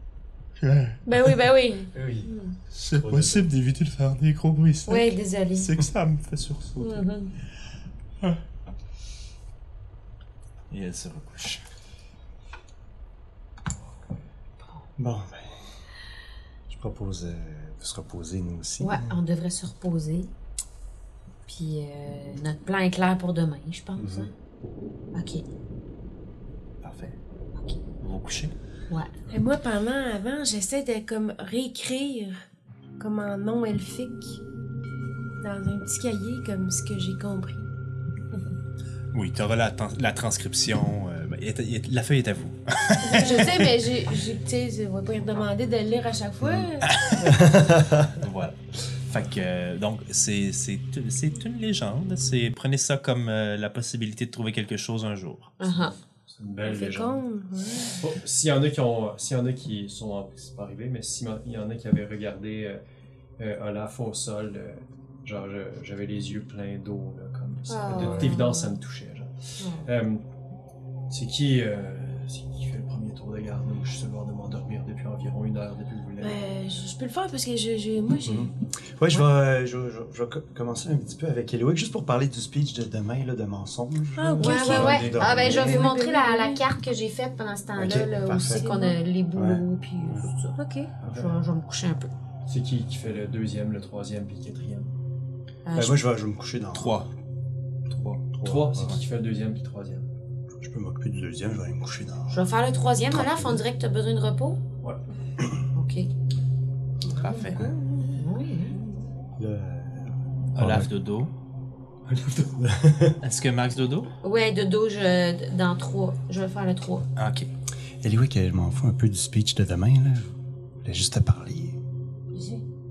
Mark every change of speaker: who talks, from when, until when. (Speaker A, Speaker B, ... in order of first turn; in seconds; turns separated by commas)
Speaker A: 0.6-1.0, Speaker B: 1.1-2.5, Speaker C: 1.9-2.3, Speaker A: 2.7-7.0, Speaker C: 2.9-3.5, Speaker B: 4.9-5.7, Speaker B: 6.8-7.3, Speaker A: 10.7-11.6, Speaker C: 15.0-15.5, Speaker C: 16.7-19.2, Speaker B: 18.8-20.3, Speaker B: 21.5-24.3, Speaker C: 24.0-24.3, Speaker B: 25.1-25.4, Speaker A: 26.8-27.1, Speaker A: 28.0-28.5, Speaker D: 29.3-32.4, Speaker D: 33.0-34.4, Speaker D: 35.4-37.7, Speaker A: 39.1-43.7, Speaker D: 43.0-47.0, Speaker B: 43.2-43.5, Speaker C: 46.4-46.7, Speaker A: 46.8-47.4, Speaker C: 47.2-48.2, Speaker A: 48.2-48.6, Speaker A: 49.1-55.5, Speaker B: 55.6-55.9, Speaker E: 55.6-57.2, Speaker D: 56.6-58.0, Speaker E: 58.0-62.8, Speaker E: 63.4-69.3, Speaker B: 67.7-68.7, Speaker C: 67.9-68.3, Speaker B: 69.6-69.9, Speaker E: 69.8-70.2, Speaker E: 71.1-76.4, Speaker D: 76.2-78.5, Speaker C: 78.2-85.9, Speaker D: 84.2-86.6, Speaker B: 84.4-92.1, Speaker E: 84.5-85.7, Speaker C: 87.8-88.7, Speaker D: 88.4-89.0, Speaker C: 89.3-90.3, Speaker D: 90.6-90.9, Speaker E: 91.0-91.4, Speaker E: 92.5-94.9, Speaker B: 95.7-96.0, Speaker C: 95.7-97.0, Speaker A: 96.7-97.1, Speaker A: 97.9-98.2, Speaker C: 98.3-99.0, Speaker E: 98.4-100.1, Speaker C: 100.5-102.4, Speaker B: 102.3-104.6, Speaker C: 103.1-103.6, Speaker B: 105.7-106.1, Speaker A: 107.2-107.6, Speaker D: 107.6-108.0, Speaker B: 108.1-108.8, Speaker C: 109.4-110.9, Speaker A: 110.5-111.3, Speaker C: 112.1-113.2, Speaker A: 113.2-114.1, Speaker B: 114.2-117.0, Speaker A: 117.2-117.5, Speaker C: 118.0-120.3, Speaker C: 120.8-121.8, Speaker D: 122.3-122.6